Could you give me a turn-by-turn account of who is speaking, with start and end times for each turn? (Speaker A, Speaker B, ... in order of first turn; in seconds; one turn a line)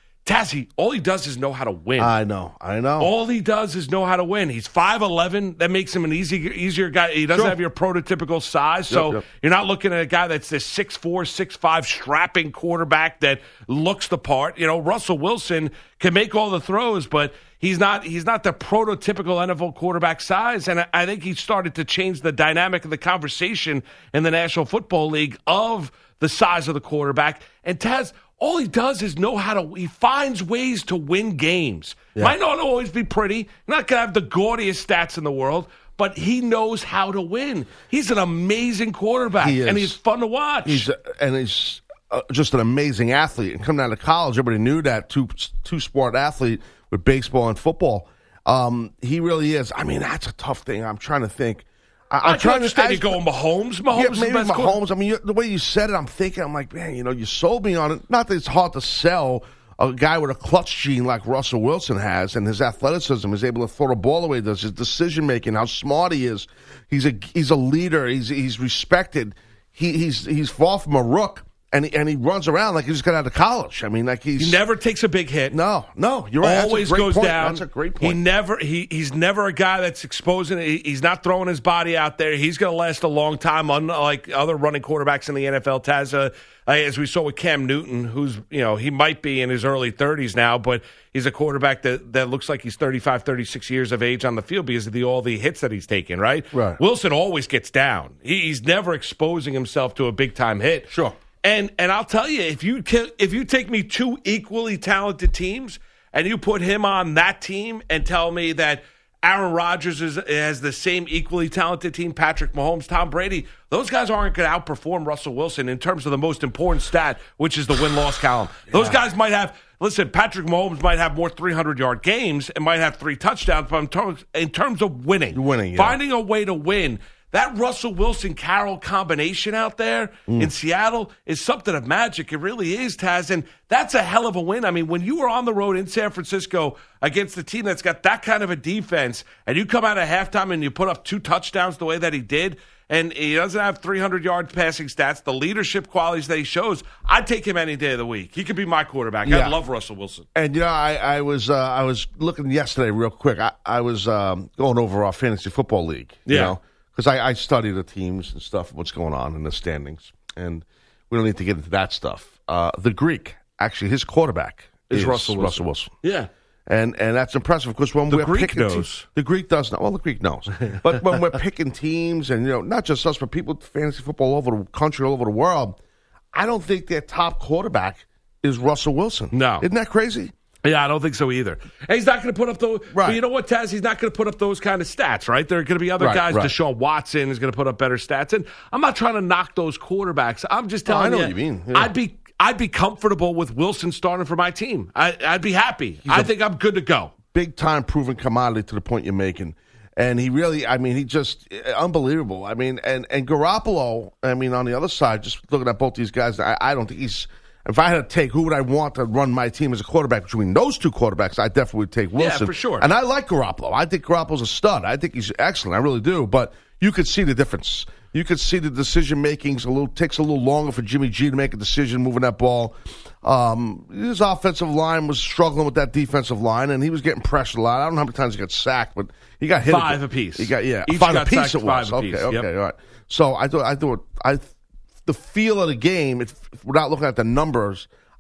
Speaker A: 0.2-2.1
Speaker B: 2.0-3.1
Speaker A: 3.0-40.9
Speaker B: 7.3-7.6
Speaker B: 8.9-9.2
Speaker B: 39.4-40.0
Speaker B: 40.6-53.2
Speaker A: 52.2-54.8
Speaker B: 53.9-74.6
Speaker A: 74.4-75.6
Speaker B: 75.5-78.2
Speaker A: 76.4-150.2
Speaker B: 96.5-96.8
Speaker B: 100.9-101.2
Speaker B: 118.7-119.0
Speaker B: 125.3-126.0
Speaker B: 149.2-149.6
Speaker B: 150.3-165.9
Speaker A: 156.3-156.6
Speaker A: 164.9-166.3
Speaker B: 166.7-175.8
Speaker A: 168.1-169.1
Speaker B: 176.3-180.3
Speaker A: 179.3-179.7
Speaker A: 180.6-197.1
Speaker B: 182.9-183.2
Speaker B: 186.0-186.5
Speaker B: 190.9-191.9
Speaker B: 196.1-196.3
Speaker B: 197.3-234.5
Speaker A: 212.2-212.9
Speaker A: 229.7-232.5
Speaker B: 235.1-237.9